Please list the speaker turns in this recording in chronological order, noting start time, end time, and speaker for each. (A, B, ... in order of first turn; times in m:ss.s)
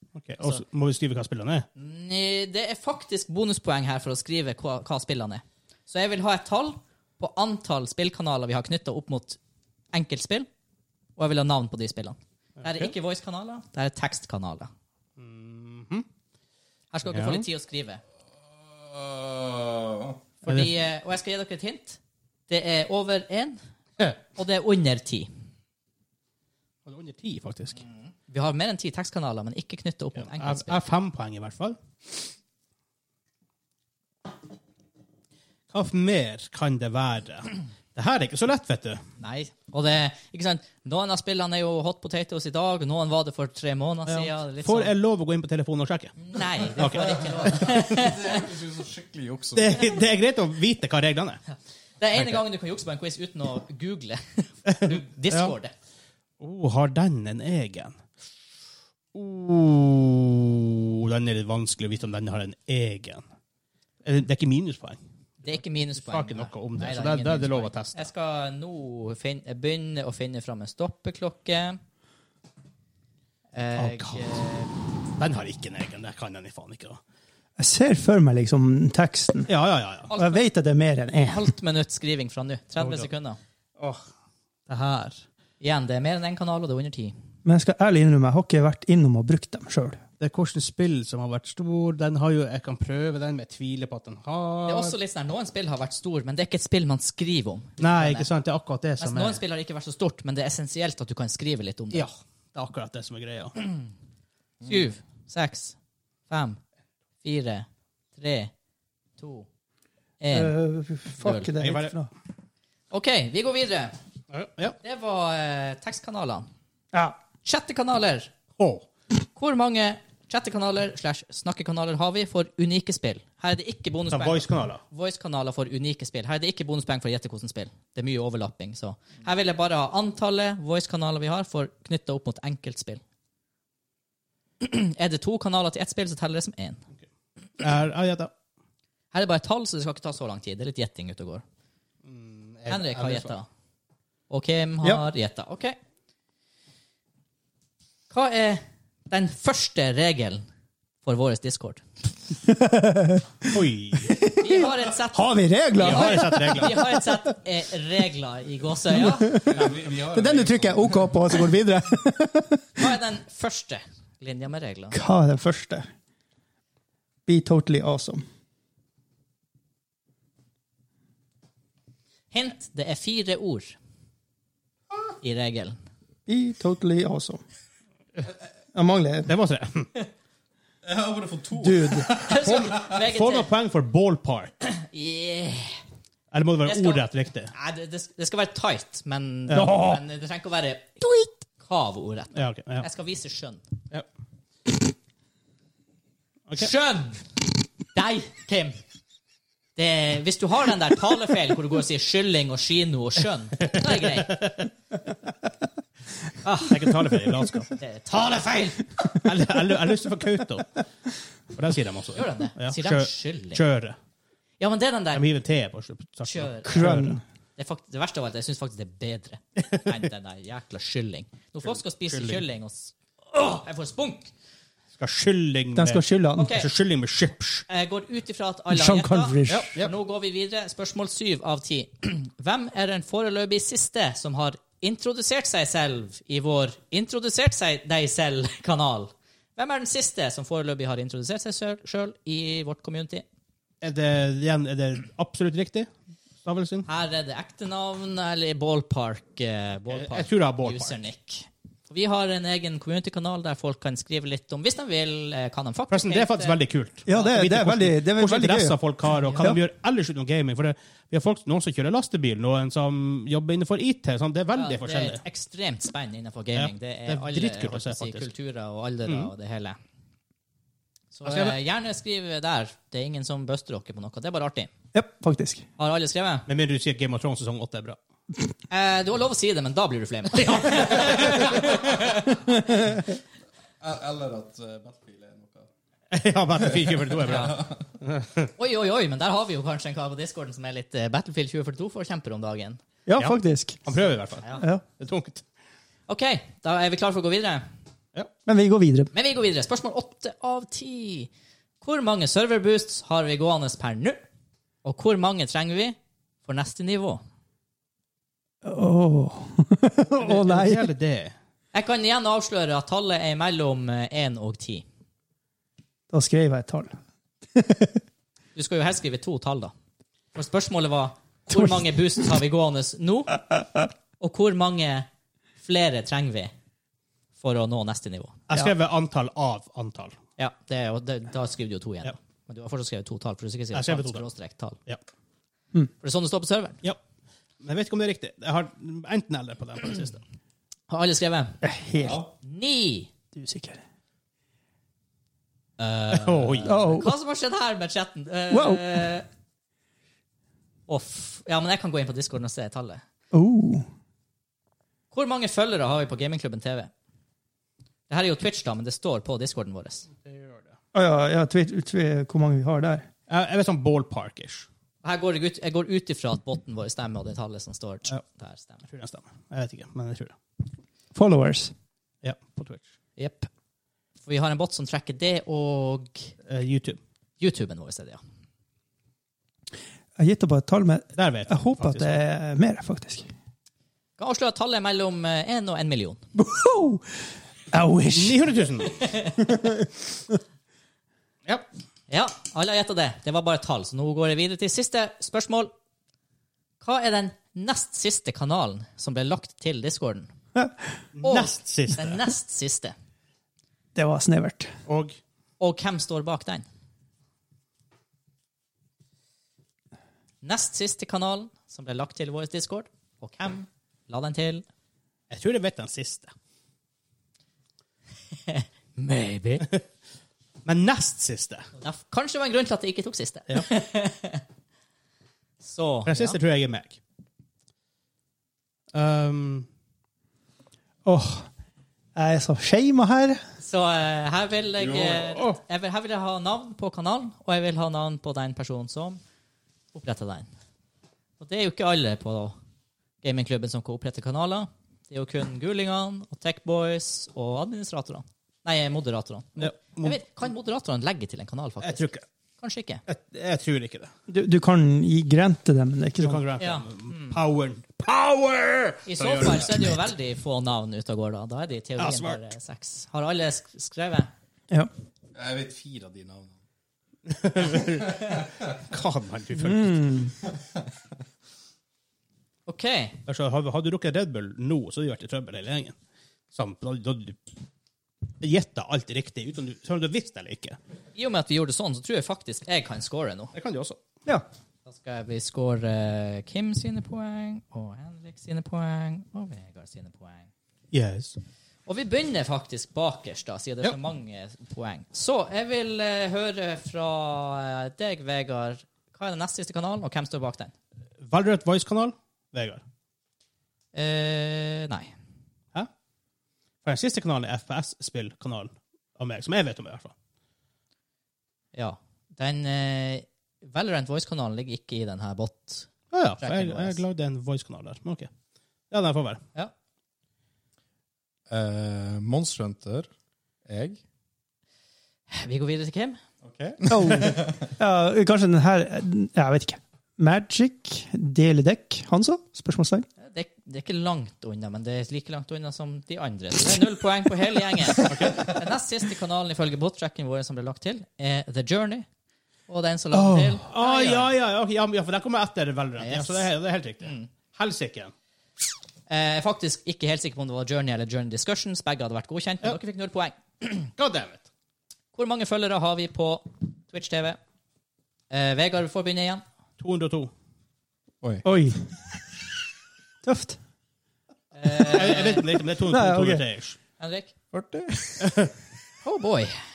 0:00.2-0:01.7 A
0:01.8-0:09.4 B
0:09.9-0:10.5 B
0:11.2-0:14.7 B
0:12.6-0:12.9 A
0:15.2-0:16.1 A
0:16.9-0:18.0 B
0:17.1-0:17.4 A
0:18.7-0:20.2 C
0:20.4-0:23.6 B
0:20.5-0:20.7 A
0:24.4-0:25.3 B
0:26.9-0:27.8 A
0:28.3-0:30.8 B
0:30.3-0:31.8 A
0:35.7-0:39.0 A
0:39.2-0:44.9 B
0:44.1-0:47.6 A
0:46.2-0:48.4 B
0:47.4-0:50.0 C
0:49.6-0:51.4 A
0:52.0-0:55.7 B
0:52.2-0:52.4 A
0:54.7-0:55.6 A
0:56.4-0:58.0 A
0:59.1-1:03.2 A
1:04.0-1:05.0 A
1:05.4-1:11.8 B
1:06.0-1:08.1 A
1:13.5-1:14.7 B
1:13.8-1:14.4 A
1:15.2-1:17.0 A
1:17.6-1:19.5 D
1:19.5-1:20.1 A
1:20.1-1:20.4 B
1:20.1-1:21.5 D
1:21.3-1:23.4 B
1:22.8-1:23.1 A
1:24.7-1:25.2 A
1:25.6-1:27.1 B
1:27.4-1:30.0 D
1:30.2-1:35.0 A
1:34.7-1:38.3 B
1:37.8-1:39.4 A
1:39.0-1:42.1 B
1:41.9-1:43.6 A
1:44.6-1:45.8 B
1:46.3-1:46.6 B
1:47.2-1:48.5 B
1:49.2-1:49.5 B
1:50.2-1:50.5 B
1:50.3-1:52.1 D
1:51.2-1:51.5 B
1:51.5-1:51.9 A
1:52.9-1:54.0 B
1:54.3-1:54.8 A
1:54.8-1:56.5 B
1:57.4-1:58.3 B
1:58.6-1:58.9 A
1:59.4-2:13.0 B
2:04.1-2:04.8 A
2:14.6-2:16.8 B
2:17.6-2:18.3 A
2:19.1-2:21.4 B
2:22.0-2:23.4 A
2:22.7-2:23.5 B
2:24.3-2:25.8 B
2:28.1-2:30.4 B
2:31.0-2:31.8 B
2:32.4-2:37.2 D
2:33.5-2:34.2 A
2:34.4-2:39.4 B
2:35.8-2:36.8 A
2:38.9-2:42.7 D
2:39.3-2:41.2 C
2:42.8-2:45.0 B
2:44.9-2:45.9 D
2:47.3-2:48.2 D
2:52.3-2:53.8 B
2:55.2-2:55.8 B
2:56.3-2:57.4 D
2:58.7-2:59.3 D
2:59.3-2:59.9 A
3:00.8-3:02.2 C
3:01.6-3:02.1 D
3:02.1-3:03.5 B
3:02.4-3:04.5 A
3:04.6-3:05.8 B
3:06.3-3:07.5 A
3:06.6-3:11.1 B
3:09.5-3:10.0 A
3:11.6-3:13.6 B
3:12.4-3:12.9 A
3:16.6-3:17.2 B
3:17.9-3:18.8 B
3:19.8-3:24.4 B
3:24.3-3:24.6 A
3:26.4-3:26.8 B
3:26.7-3:27.7 A
3:27.8-3:28.9 B
3:29.1-3:30.7 A
3:31.5-3:34.0 A
3:32.1-3:33.6 B
3:34.6-3:35.2 B
3:35.1-3:37.2 A
3:36.2-3:44.3 B
3:36.6-3:37.2 D
3:41.6-3:42.4 A
3:45.0-3:47.7 A
3:45.8-3:46.5 D
3:46.4-3:46.7 B
3:47.7-4:03.2 B
3:48.7-3:49.7 D
3:49.5-3:49.9 A
4:03.8-4:05.9 A
4:06.4-4:06.9 A
4:06.9-4:16.6 B
4:09.9-4:11.0 A
4:15.9-4:25.2 A
4:17.1-4:18.8 D
4:19.2-4:19.6 B
4:24.5-4:29.8 B
4:26.6-4:28.3 A
4:31.1-4:34.7 B
4:31.2-4:31.6 A
4:34.9-4:35.6 D
4:35.8-4:36.5 B
4:36.5-4:38.0 A
4:38.7-4:42.4 B
4:40.4-4:41.8 A
4:43.8-4:45.7 C
4:46.1-4:48.5 A
4:47.3-4:47.6 B
4:48.6-4:52.8 B
4:53.1-4:53.8 D
4:53.2-4:55.4 A
4:54.6-4:54.8 D
4:56.1-4:57.6 B
4:58.5-4:59.1 D
4:59.1-5:01.3 B
5:01.8-5:04.2 B
5:04.8-5:07.2 B
5:08.6-5:10.9 D
5:10.2-5:11.3 A
5:11.7-5:14.8 B
5:16.1-5:17.0 D
5:17.6-5:18.0 D
5:18.6-5:19.7 B
5:20.4-5:23.4 B
5:21.5-5:21.9 D
5:24.2-5:25.1 B
5:25.6-5:26.5 B
5:27.4-5:28.4 B
5:28.5-5:30.2 A
5:30.4-5:34.8 B
5:33.7-5:34.2 A
5:36.0-5:36.8 B
5:37.6-5:40.2 A
5:40.9-5:41.6 B
5:41.6-5:42.2 D
5:42.0-5:42.3 C
5:42.4-5:43.1 B
5:43.4-5:43.8 D
5:45.8-5:49.3 B
5:46.1-5:46.8 A
5:46.6-5:47.1 D
5:48.5-5:49.1 D
5:50.9-5:53.0 B
5:53.3-5:53.9 D
5:55.1-5:56.9 B
5:58.1-6:00.1 B
6:00.2-6:00.7 A
6:00.9-6:03.1 D
6:03.3-6:04.7 A
6:05.0-6:08.8 B
6:08.9-6:10.4 A
6:11.2-6:11.7 D
6:12.2-6:12.8 A
6:13.2-6:13.5 B
6:14.2-6:16.3 B
6:16.5-6:17.0 A
6:17.4-6:18.2 B
6:20.2-6:23.2 D
6:21.2-6:22.2 A
6:24.2-6:26.2 B
6:26.4-6:27.0 D
6:27.7-6:28.5 D
6:28.1-6:29.0 A
6:29.0-6:29.4 B
6:32.1-6:35.7 B
6:36.8-6:40.3 B
6:41.2-6:42.2 A
6:41.2-6:42.9 B
6:44.0-6:44.7 D
6:44.9-6:45.2 A
6:45.6-6:46.6 B
6:50.4-6:54.6 B
6:55.3-6:56.3 A
6:58.5-6:59.7 B
7:00.7-7:01.6 A
7:01.8-7:04.4 B
7:05.6-7:06.4 B
7:06.1-7:07.0 A
7:08.9-7:09.7 A
7:11.0-7:11.5 D
7:12.2-7:13.4 D
7:13.6-7:19.2 B
7:15.0-7:15.6 A
7:19.9-7:20.5 B
7:21.4-7:22.6 B
7:23.2-7:32.1 B
7:29.6-7:30.2 A
7:31.8-7:32.2 A
7:32.6-7:33.0 B
7:33.1-7:34.1 A
7:34.3-7:36.4 D
7:36.2-7:39.9 A
7:36.6-7:37.4 B
7:39.1-7:44.3 B
7:42.0-7:42.4 A
7:45.3-7:46.6 C
7:47.3-7:50.1 A
7:48.2-7:48.7 C
7:49.6-7:50.3 D
7:52.7-7:53.2 B
7:53.3-7:56.0 A
7:56.5-7:57.4 A
7:58.4-8:00.8 A
8:01.2-8:03.5 B
8:03.5-8:04.0 A
8:04.9-8:10.5 B
8:10.9-8:11.4 A
8:11.9-8:20.7 B
8:21.2-8:22.8 A
8:23.9-8:25.1 B
8:26.8-8:30.1 A
8:31.7-8:37.0 B
8:36.1-8:38.3 A
8:38.9-8:39.4 A
8:41.5-8:43.1 C
8:43.6-8:44.0 C
8:45.3-8:46.2 B
8:46.4-8:47.7 C
8:46.9-8:53.1 D
8:53.2-9:02.1 B
8:58.0-8:58.6 A
9:02.7-9:04.3 B
9:03.1-9:08.1 A
9:06.0-9:06.5 B
9:07.0-9:07.3 B
9:09.1-9:13.9 B
9:14.0-9:14.4 A
9:15.1-9:17.4 B
9:18.3-9:19.4 B
9:19.8-9:20.3 A
9:21.4-9:21.8 D
9:23.2-9:23.6 D
9:24.5-9:25.4 B
9:24.7-9:26.8 A
9:25.9-9:26.4 D
9:27.0-9:27.3 B
9:27.5-9:28.3 C
9:28.2-9:28.5 A
9:29.0-9:29.6 B